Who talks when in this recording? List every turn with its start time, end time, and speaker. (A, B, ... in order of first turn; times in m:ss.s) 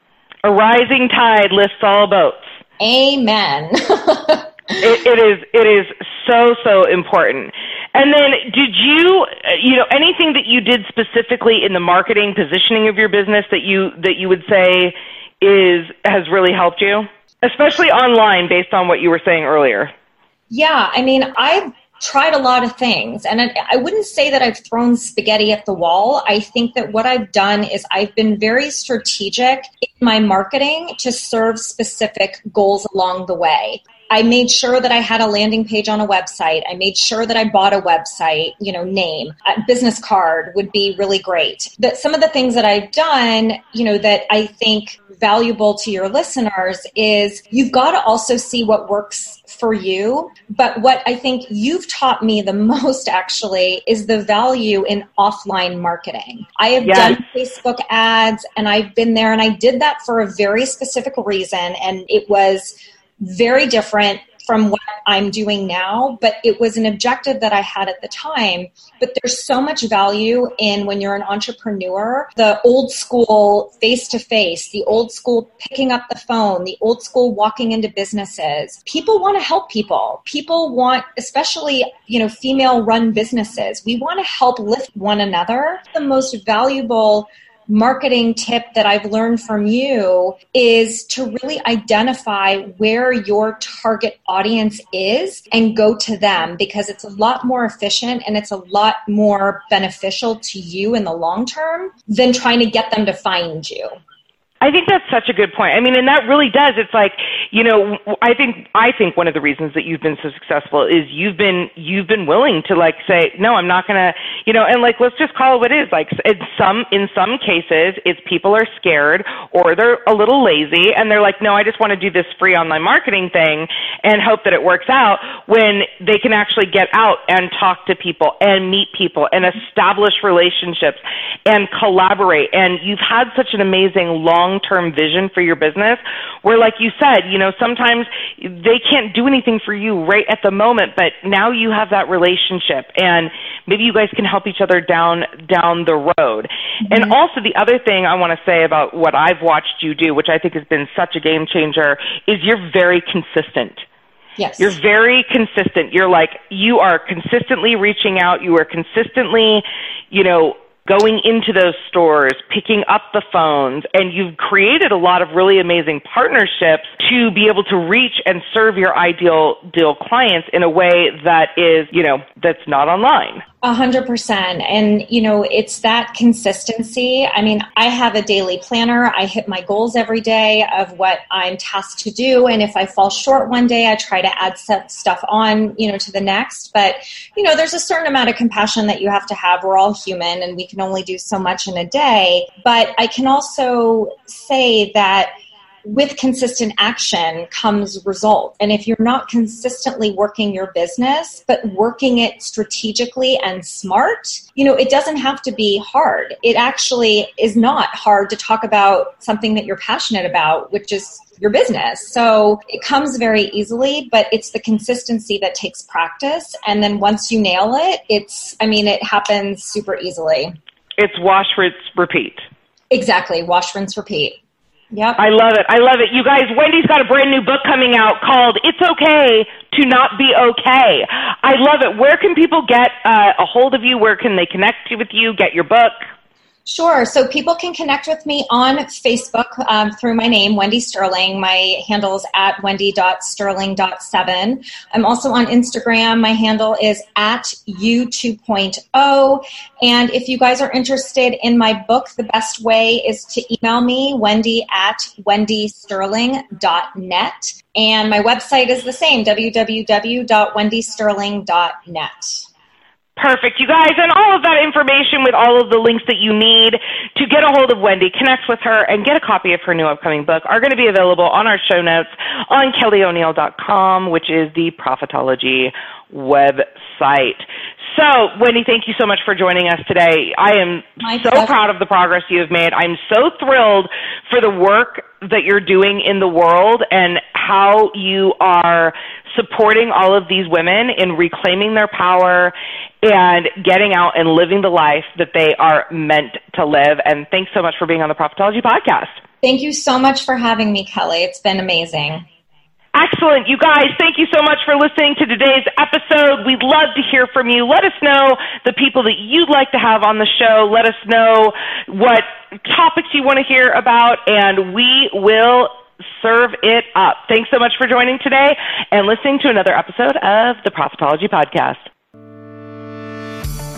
0:00.4-0:02.4 A
0:02.8-0:04.8 B
0:04.8-0:19.9 A
0:20.5-1:44.0 B
0:56.8-0:57.2 A
1:44.6-2:33.8 A
2:26.8-2:27.2 B
2:34.4-2:34.8 B
2:34.6-2:53.4 A
2:53.6-3:40.5 B
3:41.0-3:42.4 A
3:42.9-3:44.4 B
3:44.9-3:45.2 B
3:45.2-3:56.0 A
3:56.6-4:22.4 B
4:23.2-4:59.1 A
4:41.0-4:41.5 B
4:59.4-5:02.2 B
5:02.9-5:21.8 A